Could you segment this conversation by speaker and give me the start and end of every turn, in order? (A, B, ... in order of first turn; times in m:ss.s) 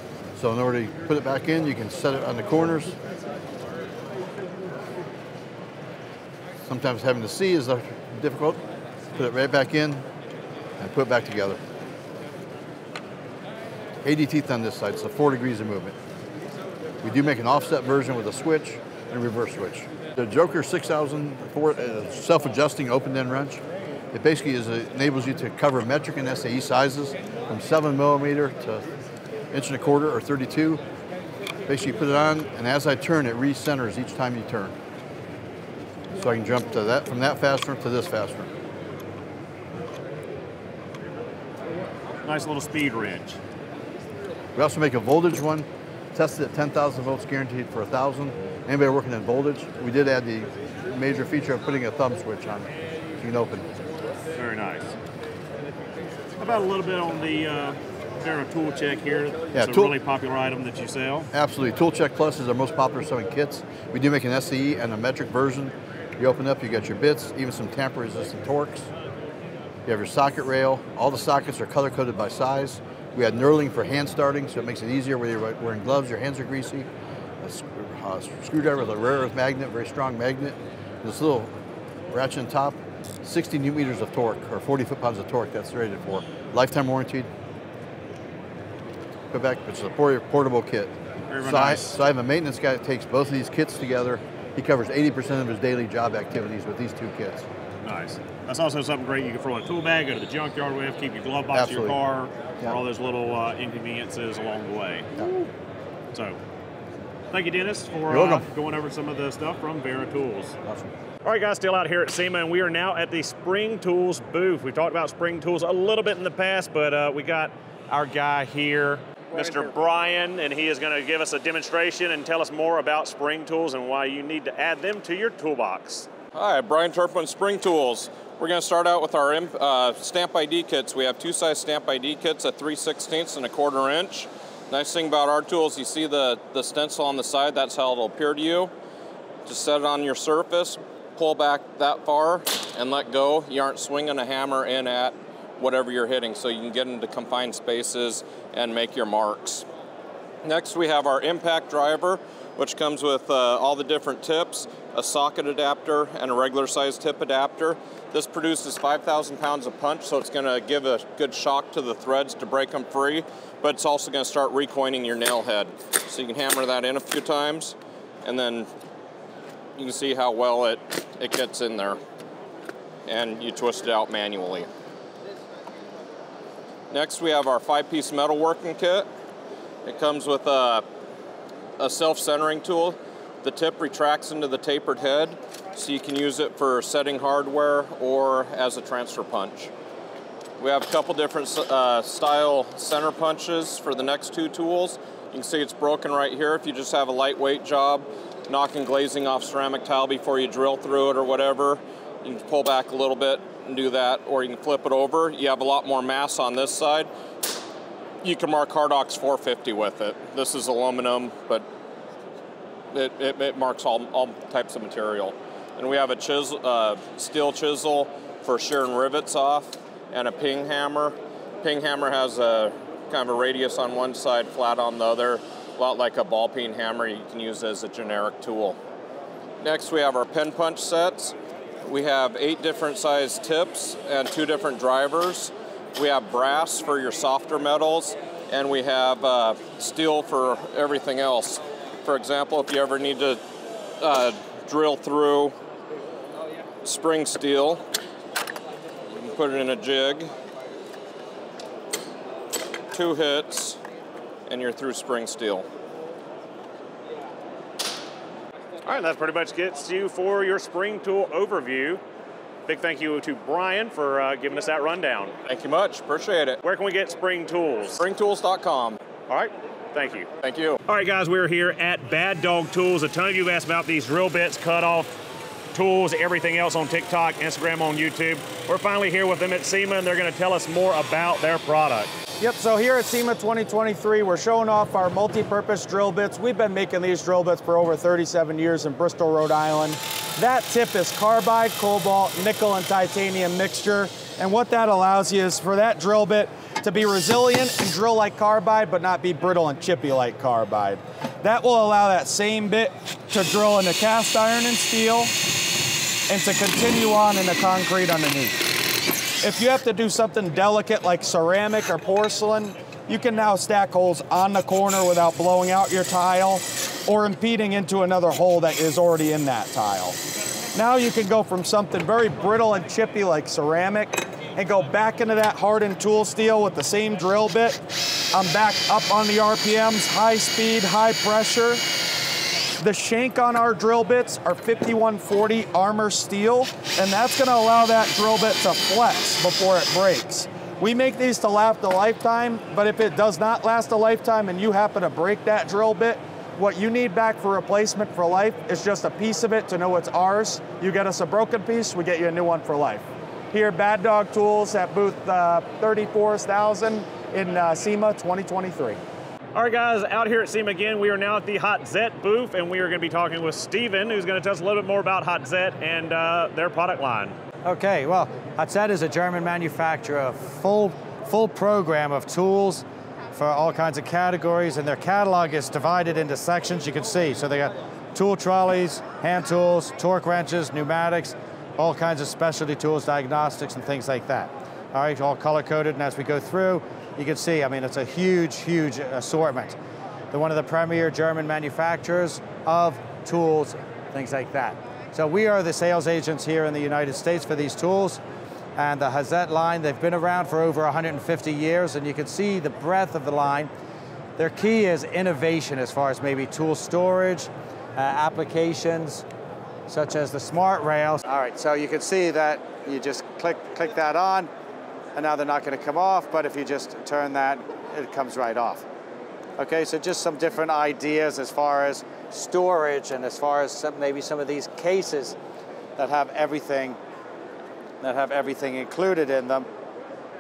0:00.3-0:03.0 A
0:06.6-0:08.6 A
0:09.1-0:10.0 A
0:10.8-0:11.6 A
0:14.0-0:15.9 A
0:17.0-0:28.9 A
0:29.5-0:30.8 A
0:31.7-0:34.7 A
0:36.1-0:38.5 A
0:42.2-0:43.4 B
0:44.6-0:53.7 A
0:54.4-0:54.9 B
0:56.4-1:01.3 B
0:59.5-0:59.9 A
1:01.3-1:08.9 A
1:09.8-1:16.9 A
1:17.4-1:21.5 A
1:22.1-1:27.3 A
1:29.3-1:37.5 A
1:31.3-1:31.9 B
1:37.8-1:45.1 B
1:41.5-1:42.0 A
1:47.3-1:50.6 B
1:48.1-1:48.5 A
1:51.2-2:06.1 B
2:06.3-2:18.7 C
2:19.4-2:29.6 C
2:30.4-2:48.7 C
2:49.8-2:52.0 C
2:53.0-2:54.7 C
2:56.9-2:59.0 C
2:59.8-3:00.8 C
3:01.8-3:09.7 C
3:10.6-3:27.1 C
3:28.2-3:31.6 C
3:32.9-3:48.8 C
3:49.6-4:03.4 C
4:04.0-4:05.5 C
4:06.8-4:07.8 C
4:09.1-4:10.3 C
4:12.9-4:13.8 C
4:14.5-4:15.7 C
4:18.8-4:22.0 B
4:22.6-4:25.3 B
4:25.4-4:26.6 C
4:26.6-4:28.0 B
4:28.0-4:29.0 C
4:29.3-4:30.3 B
4:30.4-4:30.8 C
4:30.8-4:35.1 B
4:35.7-4:42.1 B
4:42.4-5:05.4 D
5:06.3-5:08.7 D
5:09.4-5:20.2 D
5:20.7-5:31.8 D
5:32.8-5:59.0 D
5:59.5-6:07.4 B
6:07.6-6:29.8 E
6:30.3-6:38.2 E
6:38.8-6:43.7 E
6:44.4-6:49.2 E
6:49.9-6:54.5 E
6:55.1-6:58.8 E
6:59.6-7:05.4 E
7:06.0-7:07.0 E
7:08.0-7:09.7 E